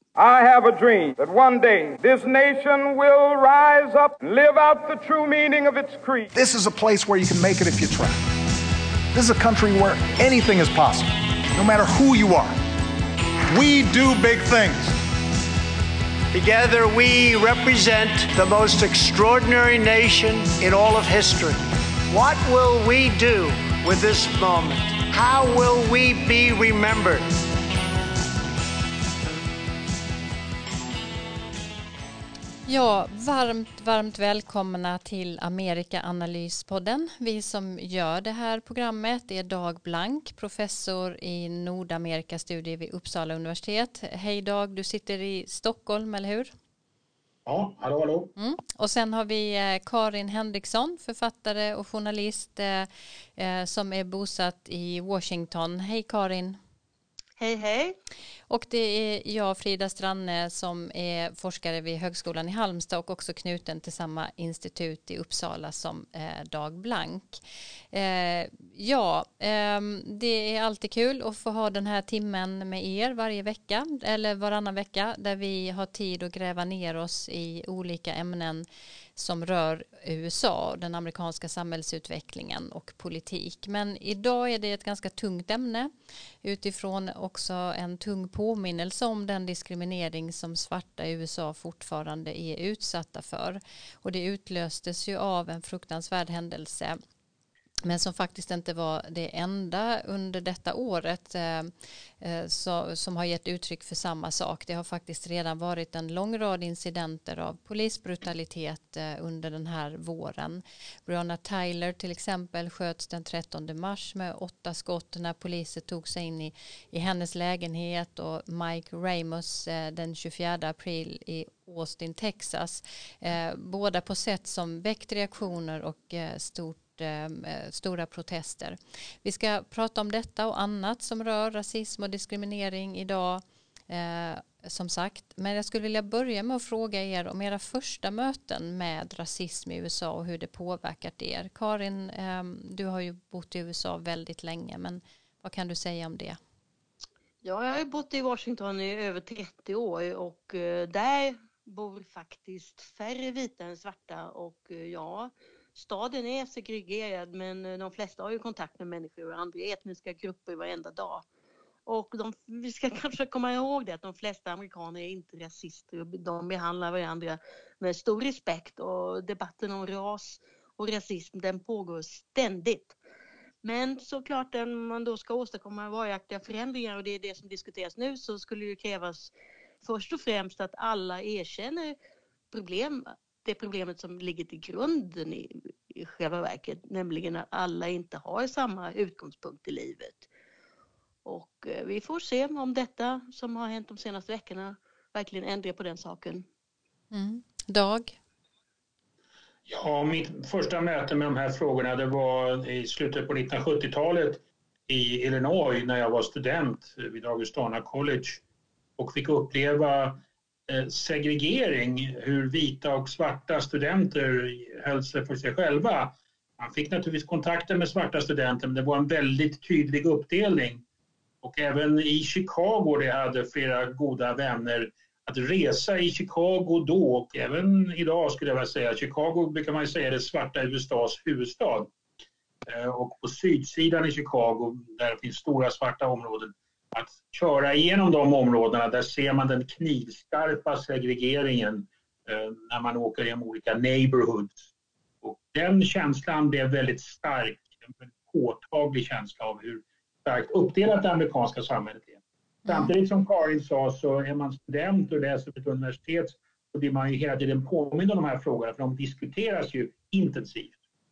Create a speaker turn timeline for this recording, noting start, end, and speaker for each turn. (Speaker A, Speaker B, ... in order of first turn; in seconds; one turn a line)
Speaker A: 0.2-6.3
Speaker B: 6.3-8.2
Speaker B: 9.1-12.6
Speaker B: 13.5-15.0
Speaker C: 16.3-27.3
Speaker D: 32.7-46.5
Speaker E: 47.5-48.3
Speaker D: 48.4-56.6
Speaker F: 57.4-58.0
Speaker D: 58.5-67.4
Speaker D: 67.9-78.7
Speaker D: 79.2-85.9
Speaker D: 86.4-97.0
Speaker D: 97.8-146.4
Speaker F: 147.4-161.2
Speaker F: 161.9-173.0
Speaker F: 173.6-179.3
Speaker F: 179.8-182.0
Speaker F: 182.5-190.3
Speaker F: 191.2-196.5
Speaker D: 197.1-198.2
Speaker E: 199.7-208.4
Speaker E: 209.0-220.8
Speaker E: 221.4-231.9
Speaker E: 232.7-244.7
Speaker E: 245.2-260.8
Speaker D: 252.7-252.9